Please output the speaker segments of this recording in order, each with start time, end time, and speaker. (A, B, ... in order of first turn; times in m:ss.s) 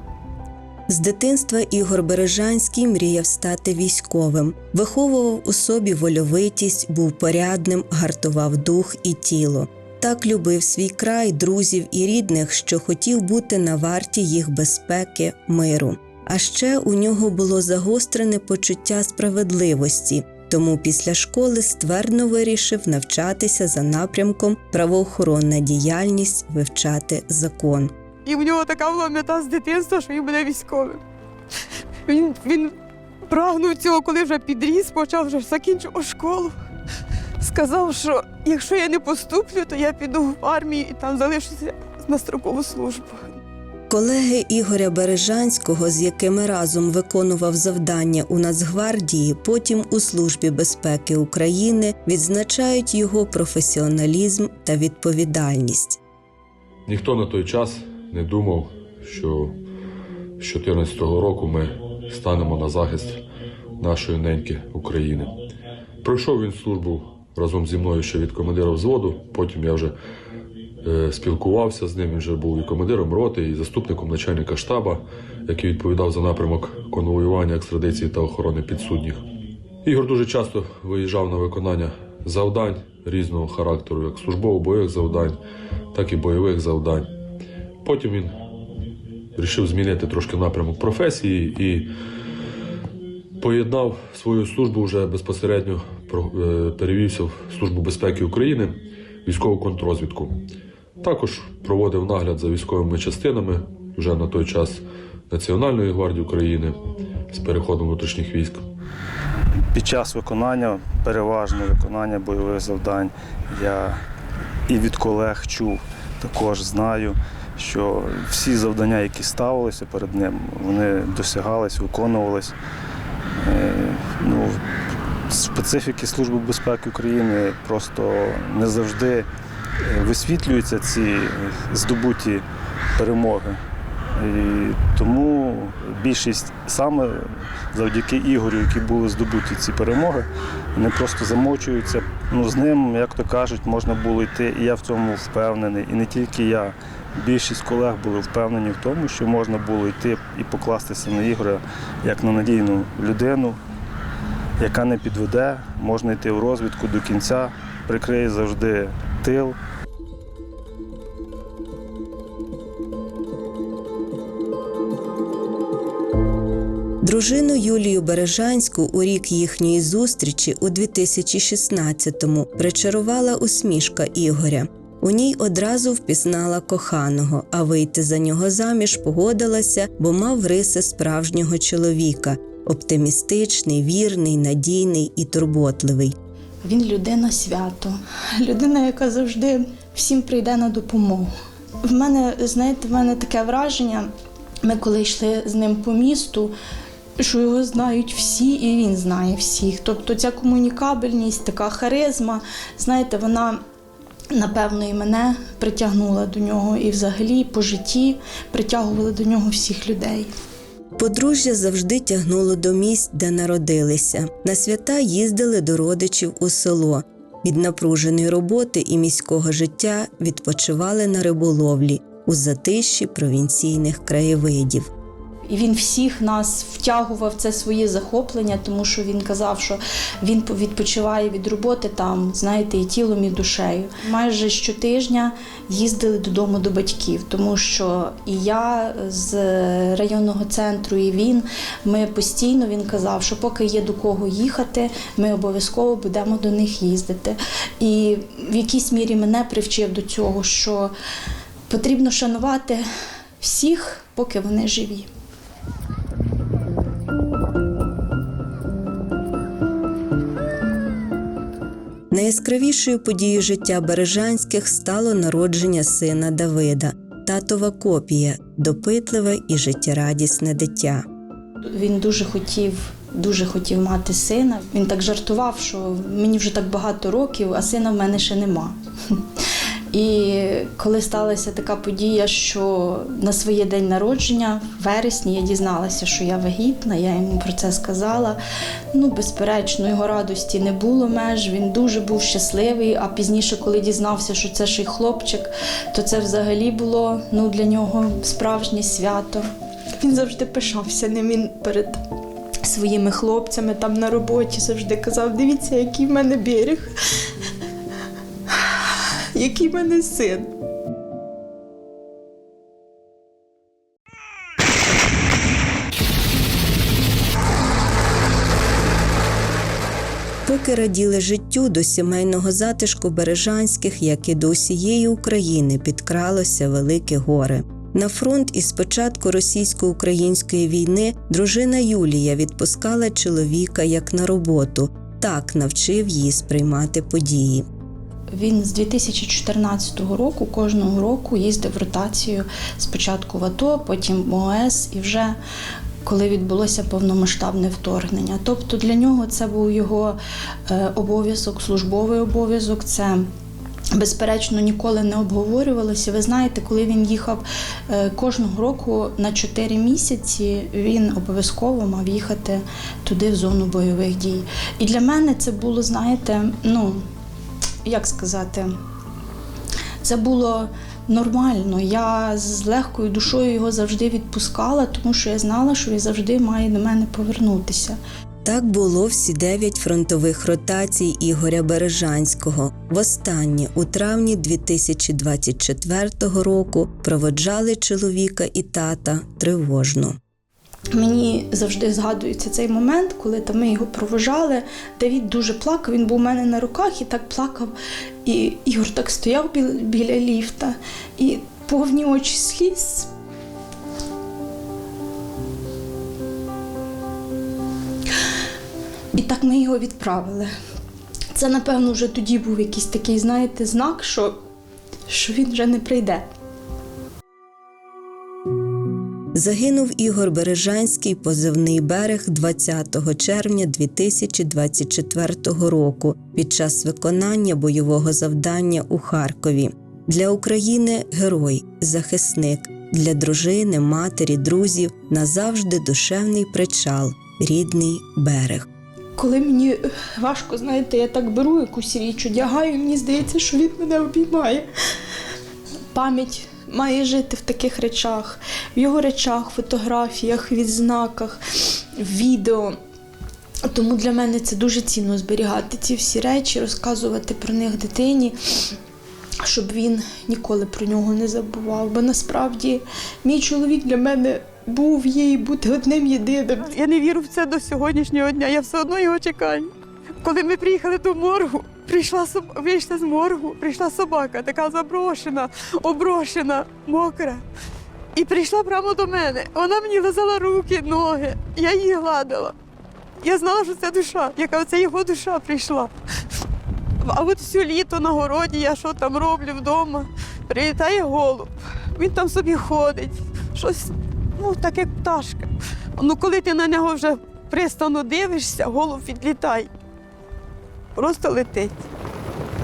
0:00.9-0:27.9 A
0:28.2-0:31.0 B
0:32.1-0:32.7 B
0:33.3-0:36.5 B
0:37.4-0:43.2 B
0:43.9-0:56.0 A
0:56.9-0:59.6 C
1:00.4-1:03.2 C
1:03.8-1:05.3 C
1:06.0-1:09.9 C
1:10.8-1:19.2 C
1:19.8-1:25.4 C
1:25.9-1:27.1 C
1:27.8-1:28.4 C
1:29.4-1:31.9 C
1:33.4-1:40.3 C
1:41.0-1:46.8 C
1:47.3-1:48.6 C
1:49.7-1:54.0 D
1:54.7-2:02.6 D
2:03.4-2:04.6 D
2:05.3-2:09.3 D
2:09.8-2:13.6 D
2:14.1-2:33.6 D
2:34.6-2:39.6 D
2:47.0-3:06.1 A
3:06.6-3:11.3 E
3:11.8-3:14.1 E
3:14.6-3:16.5 E
3:17.2-3:23.6 E
3:24.3-3:30.3 E
3:31.0-3:44.9 A
3:45.5-4:10.9 E
4:11.7-4:12.8 E
4:13.4-4:15.1 E
4:22.1-4:31.0 A
4:31.6-4:39.2 E
4:39.9-4:48.4 E
4:48.9-4:59.4 E
5:00.0-5:02.0 E
5:02.6-5:06.9 E
5:08.7-5:10.5 E
5:20.4-5:37.6 A
5:38.3-5:45.4 E
5:46.0-5:50.2 E
5:50.7-5:53.3 E
5:53.9-6:07.0 E
6:07.8-6:08.7 E
6:10.0-6:18.0 E
6:18.4-6:30.2 A
6:30.9-6:37.7 E
6:38.2-6:43.1 E
6:49.1-6:50.5 E
6:51.3-6:54.4 E
6:55.1-6:56.3 E
6:59.3-7:18.7 A
7:19.2-7:24.7 E
7:25.9-7:31.4 E
7:32.0-7:32.8 E
7:33.7-7:38.4 E
7:39.4-7:46.7 E
7:46.6-7:49.7 B
7:50.2-7:57.4 B
7:58.1-8:02.5 B
8:03.2-8:05.9 B
8:07.0-8:19.7 B
8:20.9-8:21.7 B